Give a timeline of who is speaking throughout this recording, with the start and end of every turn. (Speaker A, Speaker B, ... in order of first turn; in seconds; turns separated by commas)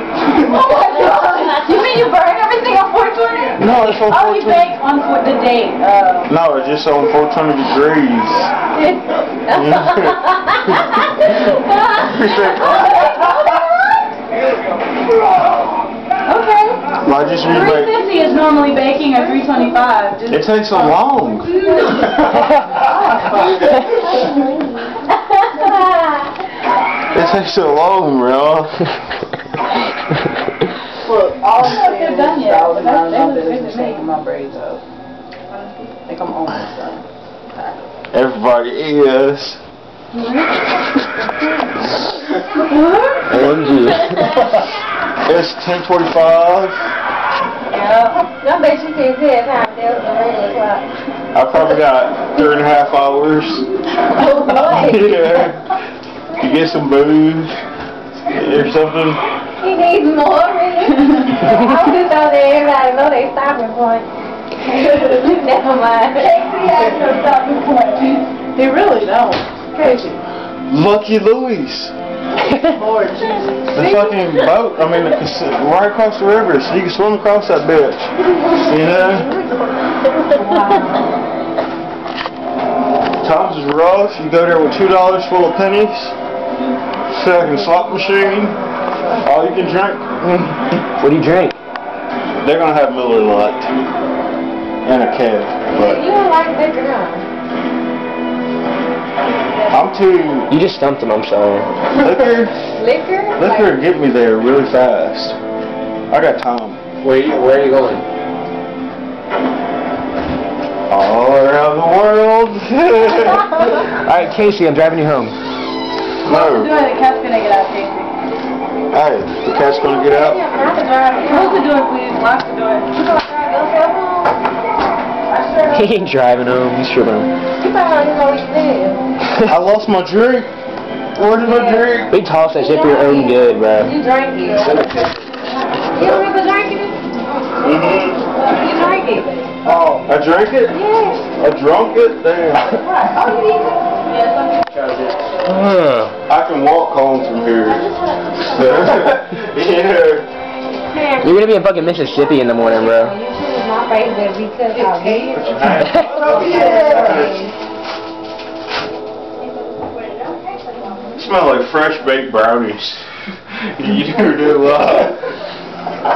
Speaker A: 0.3-6.3, Speaker B: 0.5-1.6, Speaker C: 3.6-4.8, Speaker C: 6.3-8.5, Speaker B: 8.8-13.9, Speaker C: 9.5-11.0, Speaker C: 11.9-13.3, Speaker A: 16.2-20.9, Speaker C: 17.0-18.0, Speaker C: 20.3-22.8, Speaker B: 23.8-26.3, Speaker C: 27.1-28.8, Speaker D: 31.0-34.8, Speaker A: 31.6-34.1, Speaker D: 36.0-37.8, Speaker C: 38.1-39.6, Speaker A: 40.1-40.6, Speaker A: 42.5-43.3, Speaker E: 43.3-44.5, Speaker C: 45.2-46.8, Speaker A: 47.7-48.2, Speaker B: 48.4-50.9, Speaker C: 51.3-53.6, Speaker B: 54.1-55.3, Speaker C: 54.5-55.7, Speaker C: 56.3-57.6, Speaker C: 58.3-59.2, Speaker B: 59.6-64.1, Speaker A: 64.7-65.3, Speaker B: 65.0-66.4, Speaker A: 66.1-68.8, Speaker D: 68.6-70.2, Speaker C: 70.7-71.9, Speaker D: 72.7-73.5, Speaker A: 73.2-74.2, Speaker C: 73.7-79.3, Speaker A: 80.5-80.8, Speaker B: 80.7-81.0, Speaker C: 83.2-86.1, Speaker C: 87.1-88.6, Speaker B: 87.5-89.6, Speaker C: 89.2-90.7, Speaker E: 91.0-91.5, Speaker C: 92.4-93.7, Speaker C: 94.8-96.0, Speaker B: 95.7-97.2, Speaker C: 99.7-100.5, Speaker E: 100.5-101.7, Speaker C: 101.9-102.5, Speaker B: 102.8-103.8, Speaker C: 103.3-105.4, Speaker C: 106.1-106.8, Speaker E: 107.0-108.0, Speaker C: 110.9-113.8, Speaker E: 114.0-115.4, Speaker A: 116.2-118.1, Speaker C: 116.2-116.8, Speaker C: 118.9-120.4, Speaker B: 119.5-121.7, Speaker A: 121.2-123.0, Speaker B: 123.0-124.4, Speaker A: 125.3-125.7, Speaker E: 125.7-127.3, Speaker B: 127.6-129.0, Speaker C: 129.4-130.5, Speaker C: 131.1-132.1, Speaker B: 131.3-132.0, Speaker E: 132.1-133.9, Speaker B: 132.6-134.9, Speaker E: 134.6-135.1, Speaker B: 135.9-137.8, Speaker C: 137.6-138.2, Speaker B: 138.4-139.4, Speaker C: 139.6-142.8, Speaker B: 140.7-141.3, Speaker B: 142.8-143.9, Speaker A: 144.1-144.6, Speaker E: 145.4-146.1, Speaker C: 146.3-147.9, Speaker B: 147.7-149.0, Speaker C: 148.4-150.3, Speaker B: 150.8-151.6, Speaker E: 151.2-153.1, Speaker B: 152.6-157.5, Speaker C: 155.3-157.5, Speaker C: 161.1-163.0, Speaker C: 163.8-165.2